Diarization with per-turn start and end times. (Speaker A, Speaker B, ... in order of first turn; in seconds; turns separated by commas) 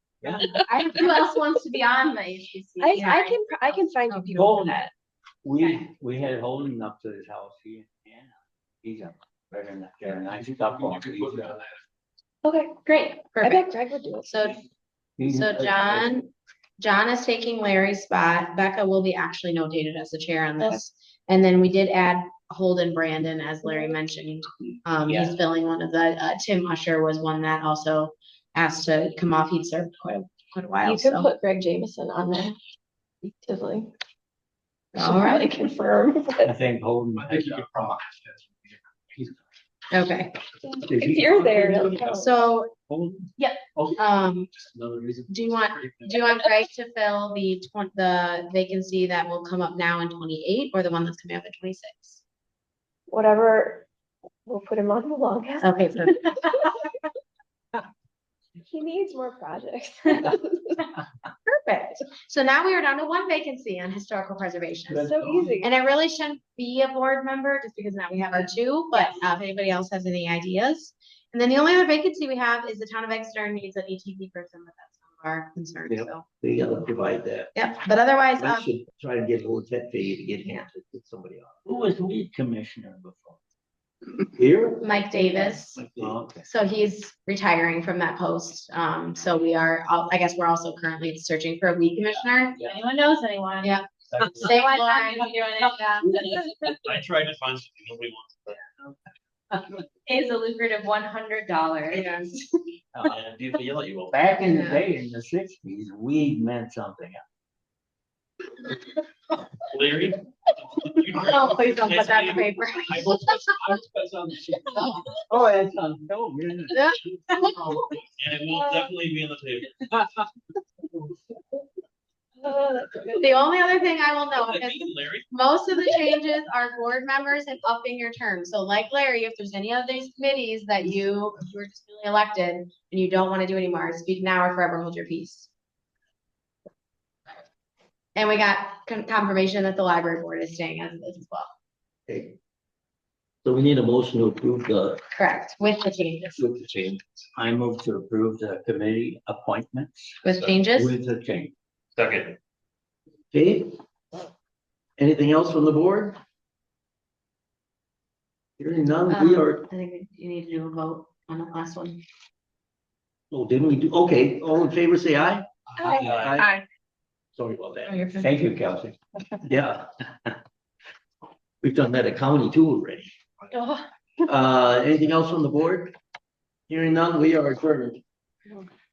Speaker A: 0.2-0.6, Speaker B: 0.4-1.1, Speaker C: 0.5-3.8, Speaker B: 2.8-4.9, Speaker A: 4.3-4.8, Speaker A: 5.4-11.6, Speaker B: 12.4-14.5, Speaker D: 13.3-14.7, Speaker A: 15.2-16.1, Speaker D: 15.3-31.3, Speaker B: 23.6-24.0, Speaker A: 25.1-25.3, Speaker B: 30.8-32.6, Speaker B: 33.2-33.9, Speaker D: 35.0-35.7, Speaker B: 35.0-36.6, Speaker A: 36.4-37.8, Speaker E: 37.3-38.5, Speaker D: 39.9-40.4, Speaker B: 40.6-42.3, Speaker A: 40.8-42.3, Speaker D: 42.1-42.7, Speaker A: 42.9-44.0, Speaker D: 44.0-44.5, Speaker A: 44.8-45.3, Speaker D: 45.3-52.2, Speaker B: 53.1-53.9, Speaker B: 54.5-56.7, Speaker D: 55.6-57.0, Speaker B: 58.6-60.8, Speaker D: 61.5-76.2, Speaker A: 64.9-65.5, Speaker B: 65.0-65.7, Speaker F: 75.9-77.5, Speaker D: 77.5-78.7, Speaker F: 78.4-81.7, Speaker A: 81.7-83.4, Speaker F: 84.3-84.9, Speaker D: 84.8-85.8, Speaker F: 85.8-86.2, Speaker A: 86.0-86.5, Speaker D: 86.5-92.6, Speaker C: 92.6-96.7, Speaker D: 93.6-95.3, Speaker E: 96.7-98.9, Speaker C: 100.1-102.1, Speaker D: 101.9-102.3, Speaker E: 103.0-104.3, Speaker A: 104.1-107.2, Speaker D: 104.4-104.8, Speaker E: 109.7-110.2, Speaker E: 110.8-115.0, Speaker D: 111.1-113.5, Speaker A: 115.3-116.9, Speaker D: 116.7-117.8, Speaker E: 118.2-119.9, Speaker B: 118.5-118.9, Speaker B: 122.4-123.4, Speaker D: 123.2-135.5, Speaker E: 124.3-125.3, Speaker D: 138.2-141.5, Speaker F: 142.1-142.3, Speaker F: 143.4-145.0, Speaker D: 145.1-146.4, Speaker A: 146.3-150.2, Speaker D: 150.2-150.9, Speaker E: 150.3-150.6, Speaker A: 150.7-151.5, Speaker E: 151.9-152.4, Speaker F: 153.3-153.8, Speaker F: 155.0-156.2, Speaker F: 158.6-159.7, Speaker D: 159.1-162.0, Speaker F: 163.3-165.5, Speaker E: 165.8-166.4, Speaker B: 165.8-166.6, Speaker F: 166.1-166.5, Speaker F: 167.3-168.0, Speaker D: 167.8-168.2, Speaker A: 168.2-169.0, Speaker F: 169.5-169.9, Speaker F: 171.6-173.1, Speaker B: 173.5-173.8, Speaker F: 174.2-175.9, Speaker F: 176.7-178.0